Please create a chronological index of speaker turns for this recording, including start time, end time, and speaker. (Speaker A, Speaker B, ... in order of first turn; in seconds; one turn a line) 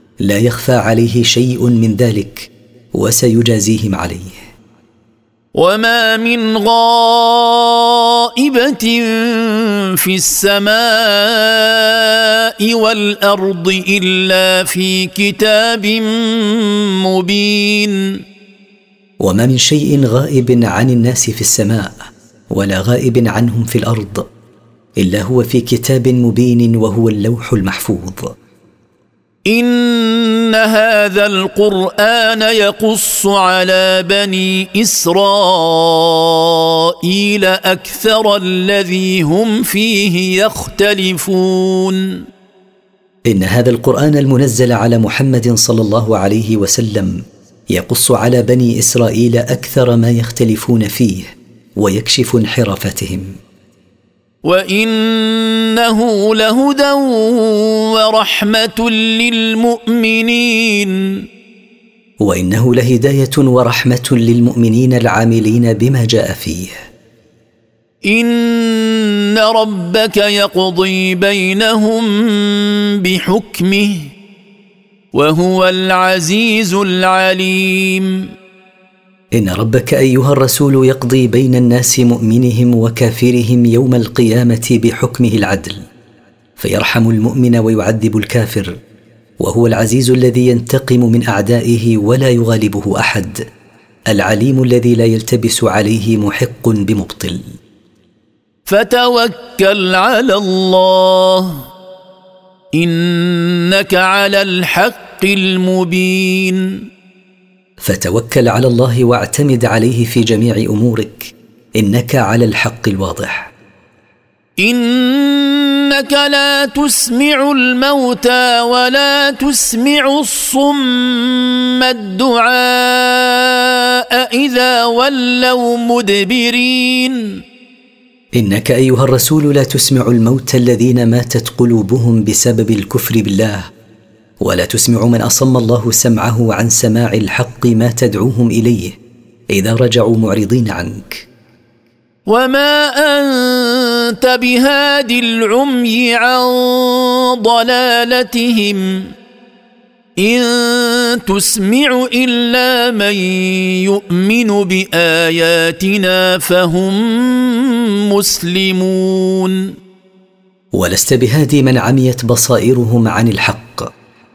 Speaker A: 0.2-4.5
Speaker B: 5.5-18.2
Speaker A: 19.2-22.0
Speaker A: 22.5-24.3
Speaker A: 25.0-28.3
Speaker B: 29.5-42.3
Speaker A: 43.3-53.4
Speaker B: 54.5-61.2
Speaker A: 62.2-66.8
Speaker B: 68.1-74.1
Speaker B: 75.1-78.3
Speaker A: 79.3-85.8
Speaker A: 86.6-88.7
Speaker A: 89.4-93.4
Speaker A: 94.1-97.5
Speaker B: 98.7-101.6
Speaker B: 102.8-106.8
Speaker A: 107.8-113.5
Speaker B: 114.6-127.4
Speaker A: 128.4-133.7
Speaker A: 134.4-139.0
Speaker A: 139.5-141.3
Speaker B: 142.3-149.1
Speaker B: 150.2-159.7
Speaker A: 160.8-163.9